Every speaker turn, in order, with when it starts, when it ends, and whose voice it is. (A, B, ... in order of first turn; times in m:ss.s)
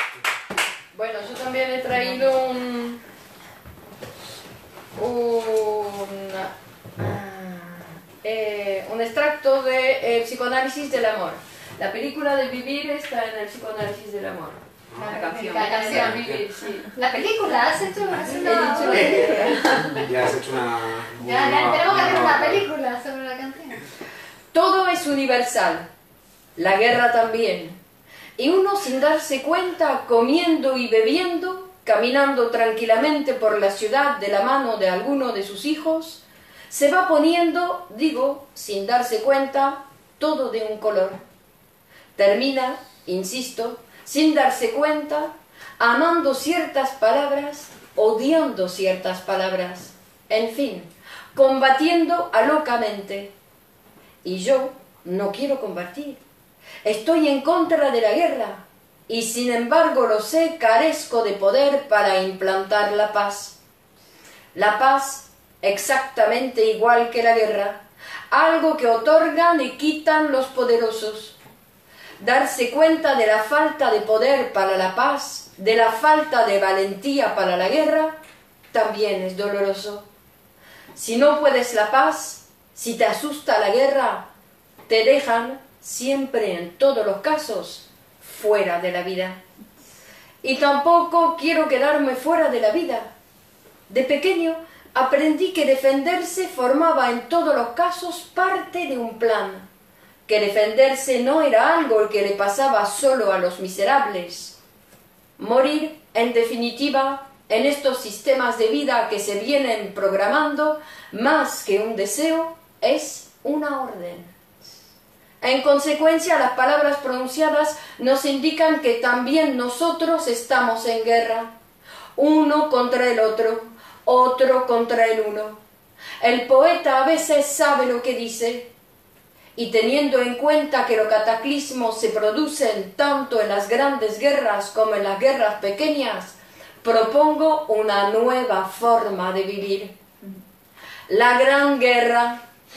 0:00.9-0:03.0 A
0:05.0-0:16.9 A
0:15.0-0:16.3 B
0:15.9-0:16.4 C
0:16.9-0:20.0 B
0:18.4-0:19.7 A
0:19.9-0:22.6 C
0:21.2-0:23.8 B
0:24.5-0:25.9 A
0:26.6-0:27.8 A
0:28.4-0:41.2 A
0:42.2-0:53.3 A
0:54.2-0:56.2 A
0:56.8-1:03.5 A
1:04.5-1:11.3 A
1:12.2-1:18.2 A
1:18.7-1:20.0 A
1:20.9-1:24.2 A
1:24.9-1:29.4 A
1:30.4-1:33.1 A
1:33.9-1:39.7 A
1:40.2-1:44.6 A
1:45.4-1:54.3 A
1:55.4-2:01.5 A
2:02.2-2:05.6 A
2:06.2-2:08.7 A
2:09.6-2:19.9 A
2:21.1-2:22.4 A